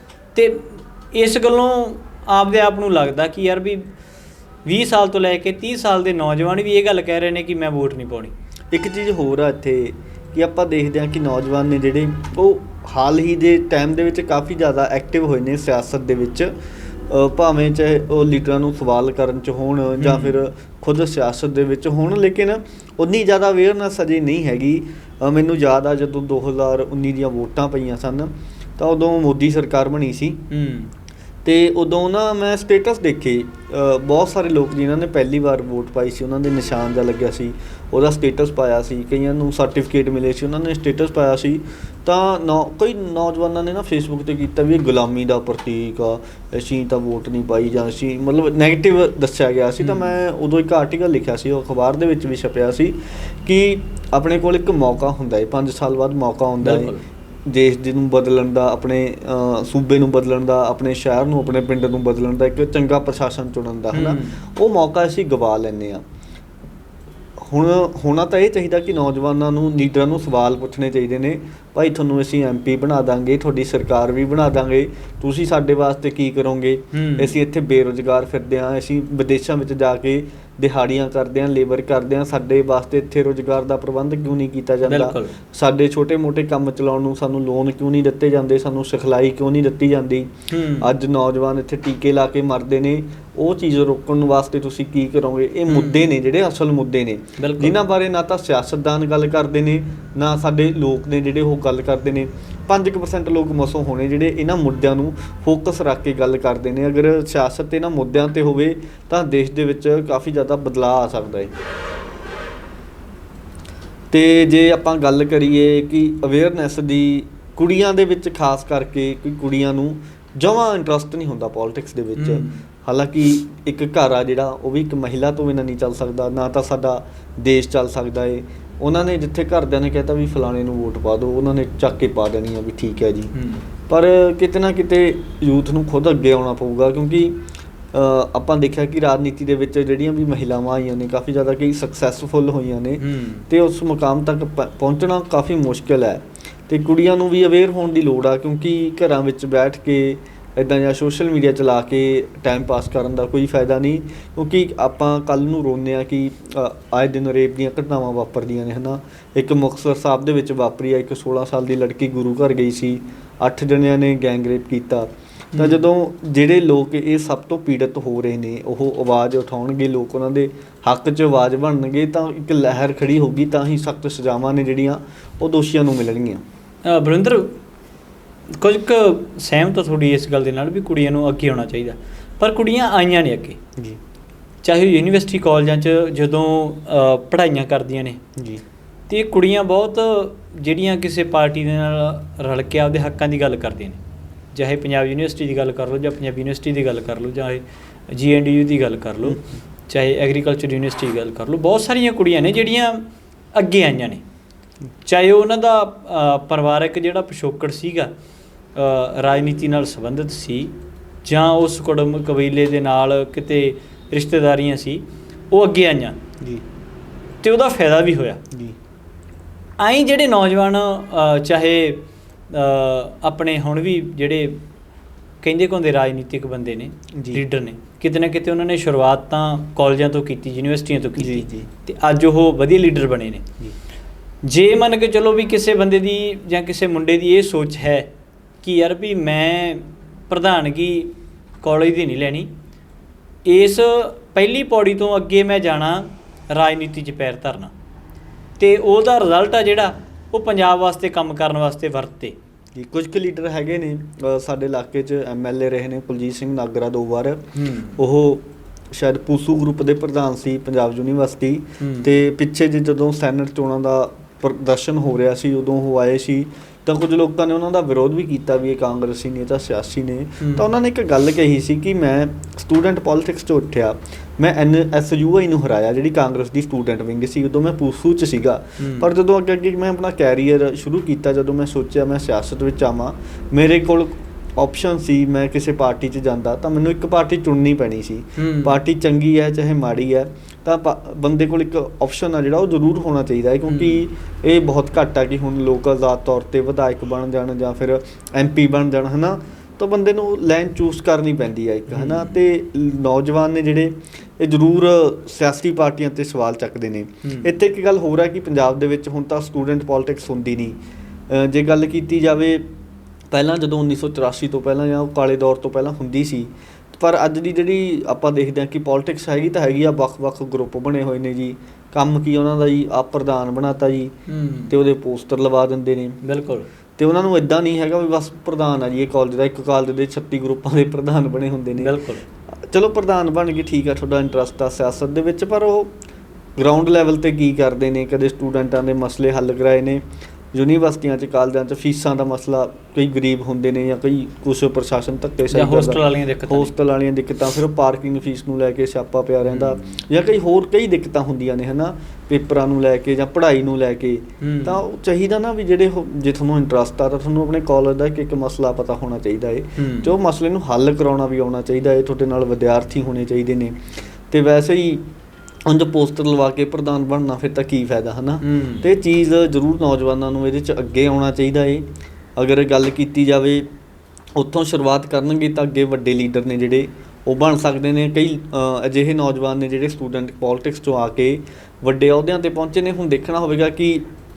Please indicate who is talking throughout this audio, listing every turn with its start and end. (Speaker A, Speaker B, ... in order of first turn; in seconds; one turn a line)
Speaker A: 0.3-3.9
Speaker A: 4.6-8.3
Speaker B: 8.7-16.5
Speaker B: 17.1-30.4
Speaker A: 20.0-20.4
Speaker A: 30.5-30.9
Speaker B: 31.4-56.9
Speaker A: 49.8-50.2
Speaker A: 56.6-57.0
Speaker B: 57.5-66.0
Speaker A: 63.9-64.4
Speaker B: 67.4-111.5
Speaker A: 76.9-77.3
Speaker A: 84.8-85.3
Speaker A: 90.5-90.9
Speaker A: 95.7-96.1
Speaker A: 97.4-97.8
Speaker B: 114.1-133.3
Speaker A: 122.2-122.6
Speaker A: 133.3-133.7
Speaker B: 133.9-137.4
Speaker B: 137.9-176.4
Speaker A: 143.0-143.5
Speaker A: 165.5-165.8
Speaker A: 176.8-177.6
Speaker A: 178.6-183.6
Speaker A: 184.6-188.2
Speaker B: 188.4-188.6
Speaker A: 189.1-194.0
Speaker A: 194.5-204.2
Speaker B: 199.2-199.6
Speaker A: 205.0-208.1
Speaker A: 208.7-216.2
Speaker A: 217.4-218.4
Speaker A: 219.8-224.6
Speaker A: 225.4-233.4
Speaker B: 227.1-227.4
Speaker B: 231.2-231.7
Speaker A: 234.4-238.1
Speaker A: 238.6-242.5
Speaker A: 243.4-247.7
Speaker A: 248.6-252.4
Speaker B: 252.7-310.8
Speaker A: 257.5-258.0
Speaker A: 261.8-262.1
Speaker A: 270.4-270.7
Speaker A: 278.8-279.1
Speaker A: 288.4-288.8
Speaker A: 293.7-294.0
Speaker A: 301.9-302.4
Speaker A: 307.2-307.5
Speaker B: 311.3-312.7
Speaker B: 313.3-324.1
Speaker A: 324.3-324.7
Speaker B: 324.7-326.2
Speaker A: 326.2-326.7
Speaker B: 327.0-331.9
Speaker A: 331.8-332.2
Speaker B: 332.6-335.9
Speaker B: 336.6-365.0
Speaker A: 345.5-346.7
Speaker A: 349.5-349.9
Speaker A: 354.4-354.8
Speaker A: 359.8-360.1
Speaker B: 365.7-373.7
Speaker A: 368.4-368.9
Speaker B: 374.3-384.1